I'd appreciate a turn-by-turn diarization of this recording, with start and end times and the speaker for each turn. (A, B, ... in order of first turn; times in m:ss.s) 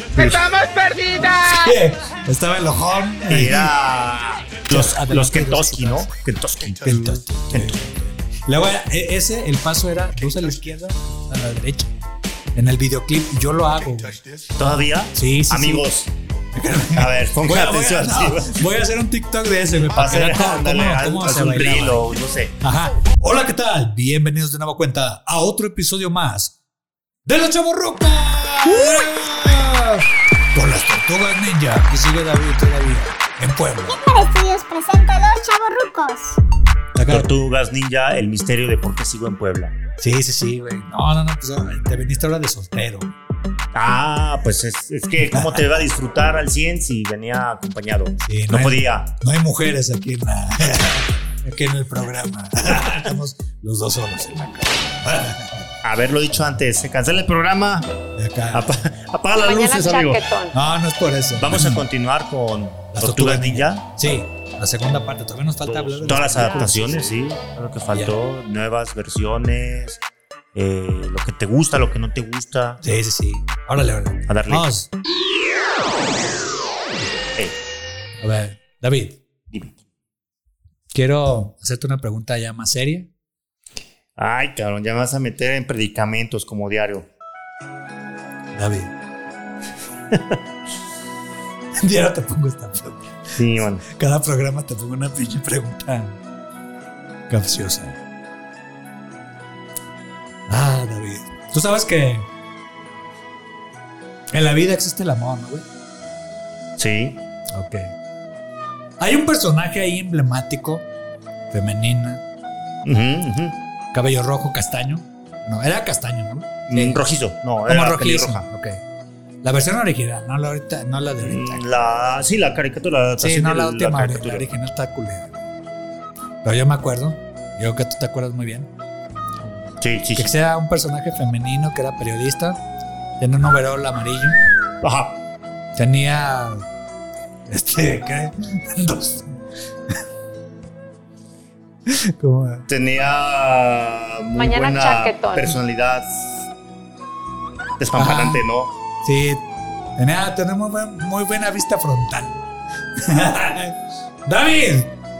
0:00.1-0:00.4 A
0:00.1-0:01.8 B
0:01.4-0:03.8 A
0:03.3-0:07.8 C
0:04.7-0:06.1 A
0:06.8-0:11.9 A
0:12.5-0:14.4 A
0:14.5-0:16.1 C
0:15.0-0:15.9 A
0:16.5-0:26.5 A
0:16.9-0:18.5 C
0:19.9-0:22.5 C
0:27.2-0:34.0 A
0:34.0-0:36.3 D
0:34.1-0:34.8 B
0:35.3-0:36.0 B
0:36.9-0:37.3 A
0:37.1-0:39.8 C
0:40.0-0:43.1 A
0:43.7-0:49.1 C
0:45.3-0:45.6 A
0:48.2-0:55.7 A
0:55.8-0:57.9 C
0:58.2-0:58.7 A
0:58.5-1:00.2 C
0:59.4-1:00.6 E
1:00.5-1:01.8 A
1:01.4-1:03.8 C
1:02.9-1:07.2 A
1:05.6-1:10.0 C
1:07.8-1:08.2 A
1:10.5-1:12.8 C
1:12.8-1:14.9 A
1:14.3-1:14.6 C
1:18.2-1:19.2 A
1:19.5-1:19.8 C
1:20.9-1:23.1 A
1:24.2-1:27.1 C
1:28.5-1:28.9 A
1:30.1-1:30.4 C
1:31.8-1:36.2 A
1:33.3-1:33.8 C
1:37.3-1:38.0 A
1:40.5-1:42.3 A
1:44.3-1:45.6 A
1:46.8-1:47.2 C
1:47.5-1:47.9 A
1:49.0-1:50.9 A
1:51.5-1:52.2 A
1:52.8-1:53.6 C
1:53.9-1:57.0 A
1:56.7-1:58.5 C
1:57.6-1:58.8 A
1:59.4-2:01.7 A
2:01.2-2:04.5 C
2:03.2-2:05.3 A
2:06.4-2:08.7 A
2:09.8-2:10.4 C
2:10.2-2:12.6 A
2:13.2-2:14.4 A
2:14.8-2:15.2 C
2:15.7-2:16.6 A
2:17.5-2:20.0 A
2:21.8-2:22.6 A
2:22.7-2:26.4 C
2:24.3-2:25.6 E
2:27.8-2:28.7 C
2:27.9-2:28.4 A
2:29.0-2:29.4 A
2:30.0-2:32.4 A
2:32.9-2:34.9 A